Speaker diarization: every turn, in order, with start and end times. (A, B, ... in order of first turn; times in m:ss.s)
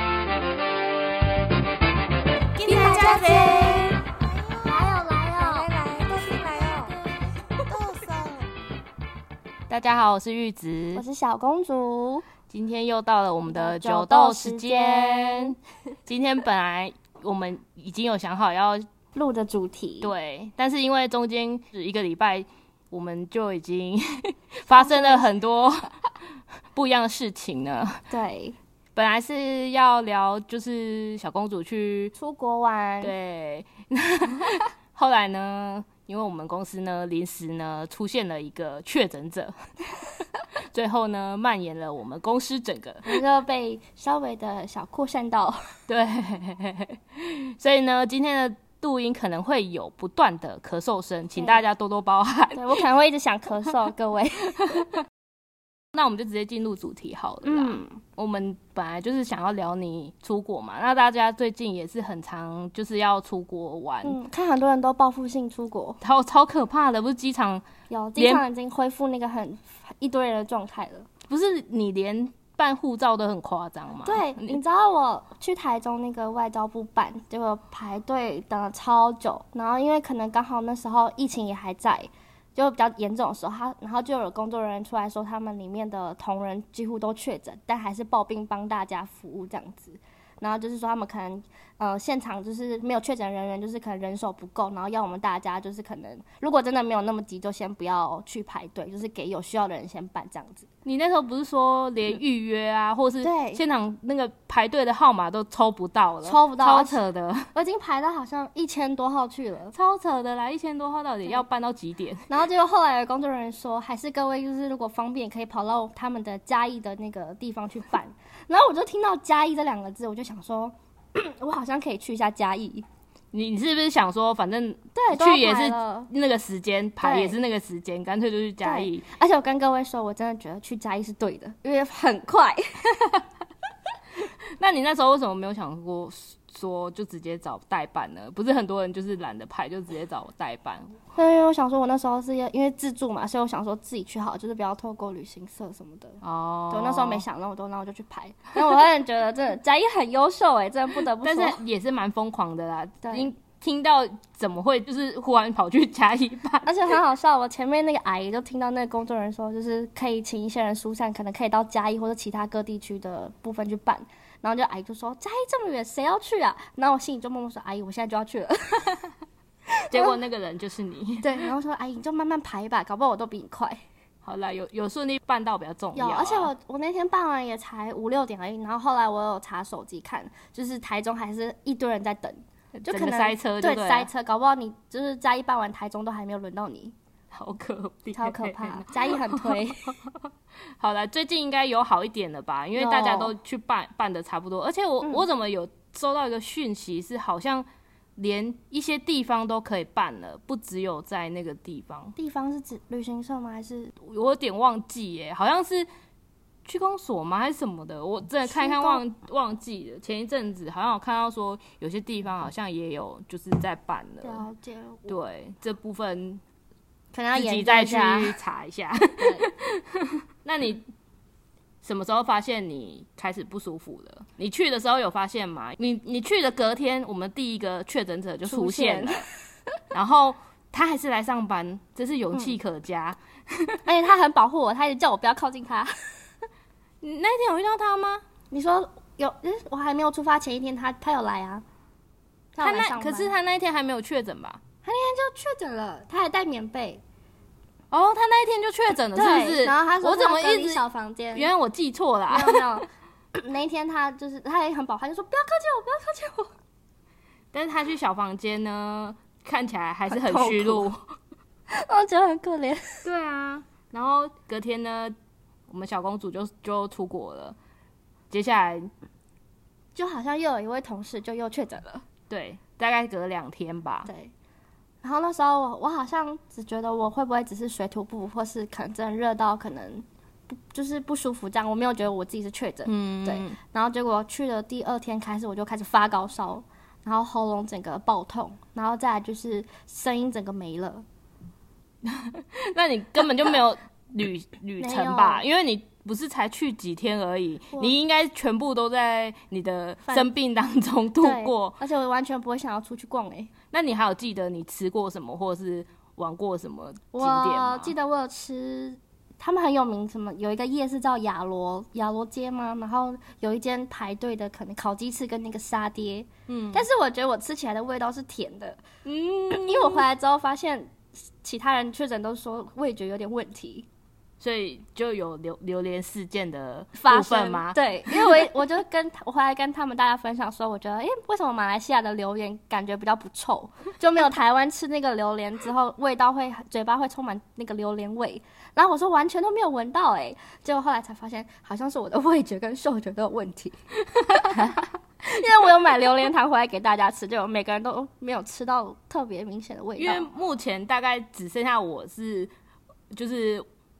0:02.6-0:04.0 A
0:02.6-0:07.0 B
0:02.6-0:03.9 C
0:04.6-0:05.7 C
0:07.7-0:08.4 B
0:09.7-0:11.0 A
0:10.9-0:12.2 C
0:12.5-0:18.8 A
0:13.5-0:15.6 C
0:19.1-0:20.1 C
0:20.0-0:26.0 A
0:24.8-0:25.3 C
0:26.7-0:28.1 A
0:28.1-0:28.6 C
0:28.9-0:32.1 A
0:32.2-0:33.1 C
0:33.0-0:39.5 A
0:40.7-0:43.2 A
0:43.0-0:45.7 C
0:45.9-0:52.8 A
0:51.4-0:51.6 C
0:52.5-0:54.9 C
0:55.9-1:04.2 A
0:57.4-0:58.0 C
1:04.0-1:06.0 C
1:06.0-1:07.6 A
1:07.9-1:11.1 C
1:08.2-1:08.4 A
1:11.3-1:14.6 A
1:14.0-1:40.7 C
1:40.8-1:47.5 A
1:43.2-1:43.6 C
1:46.2-1:47.0 C
1:47.5-1:49.7 C
1:49.7-1:52.4 A
1:52.3-2:02.8 C
2:03.3-2:09.1 A
2:04.9-2:06.1 C
2:07.0-2:07.4 C
2:08.6-2:12.8 C
2:14.6-2:20.9 A
2:21.1-2:31.6 C
2:26.2-2:27.2 A
2:31.2-2:37.0 A
2:33.0-2:33.3 C
2:36.6-2:49.0 C
2:49.9-2:51.5 A
2:49.9-2:50.2 C
2:51.2-2:53.8 C
2:54.2-2:56.5 A
2:55.9-3:06.9 C
3:02.8-3:04.1 A
3:07.3-3:22.2 A
3:08.1-3:10.0 C
3:12.8-3:13.3 C
3:22.2-3:23.9 C
3:24.0-3:25.9 A
3:26.6-3:34.4 A
3:28.4-3:29.0 C
3:34.2-3:35.2 C
3:35.1-3:36.4 A
3:37.1-3:38.4 C
3:37.3-3:40.8 A
3:39.2-3:39.5 C
3:41.8-3:49.2 A
3:48.4-3:49.4 C
3:49.9-3:53.8 A
3:53.8-3:55.9 C
3:57.0-3:58.2 A
3:58.5-4:01.6 C
4:02.5-4:03.3 C
4:02.6-4:04.6 A
4:04.8-4:07.0 C
4:07.9-4:12.7 A
4:09.1-4:11.5 C
4:12.3-4:16.5 C
4:17.5-4:21.1 A
4:20.1-4:20.9 C
4:21.7-4:23.0 C
4:23.0-4:25.2 A
4:25.7-4:27.6 A
4:28.3-4:28.9 A
4:29.9-4:32.0 C
4:32.3-4:34.1 A
4:34.0-4:34.3 C
4:35.0-4:51.0 C
4:42.8-4:43.6 A
4:52.0-5:01.8 A
4:54.8-4:55.4 C
5:01.2-5:03.5 C
5:03.7-5:07.9 A
5:07.1-5:18.8 C
5:16.5-5:16.9 A
5:19.0-5:20.1 A
5:19.5-5:23.9 C
5:24.4-5:28.5 A
5:26.9-5:43.8 C
5:44.2-5:44.8 A
5:45.2-5:50.3 C
5:50.0-5:52.5 A
5:53.1-5:53.6 A